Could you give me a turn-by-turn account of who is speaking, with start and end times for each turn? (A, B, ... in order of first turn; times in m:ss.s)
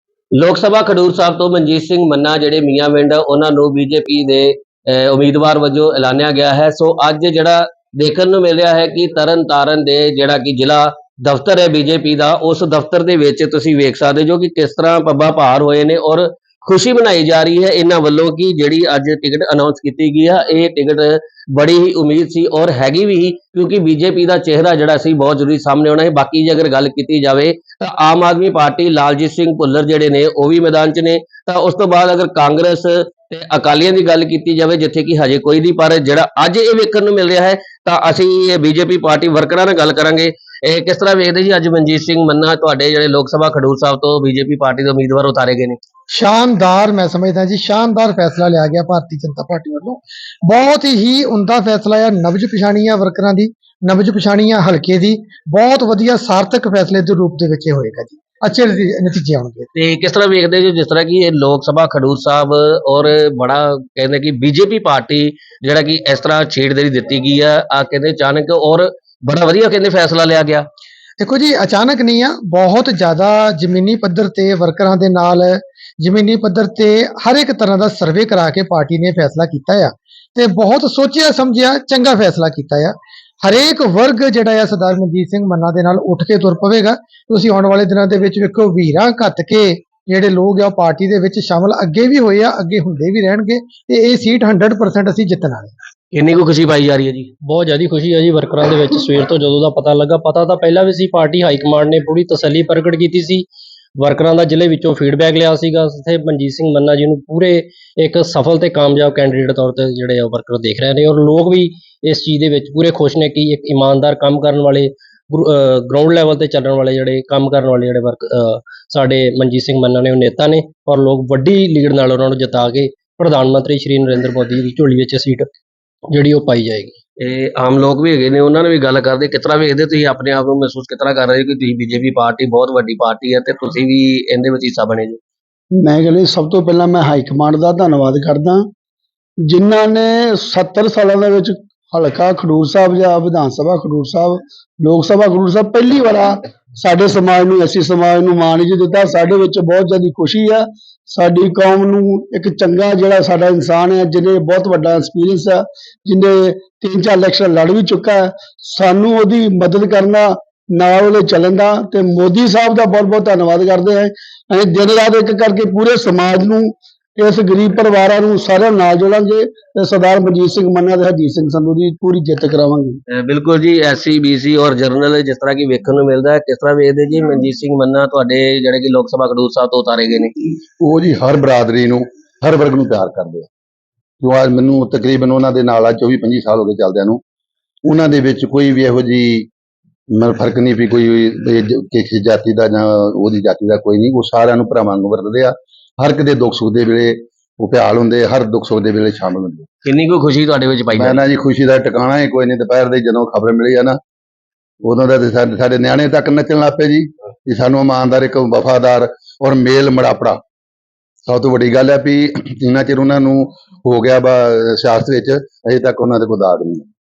0:00.4-0:45.8 A
0:46.1-0:59.7 B
0:59.7-1:10.7 A
1:11.2-1:35.8 B
1:36.1-1:37.3 A
1:37.4-1:43.4 C
1:44.0-2:05.5 C
2:06.1-2:07.0 C
2:07.2-2:15.2 A
2:15.8-2:18.7 D
2:19.5-2:53.0 D
2:53.2-3:00.3 A
3:00.6-3:03.5 E
3:04.2-3:07.2 E
3:07.9-3:09.5 E
3:10.1-3:19.7 E
3:19.8-3:21.2 A
3:20.9-3:24.0 E
3:24.8-3:30.4 E
3:31.2-3:36.9 E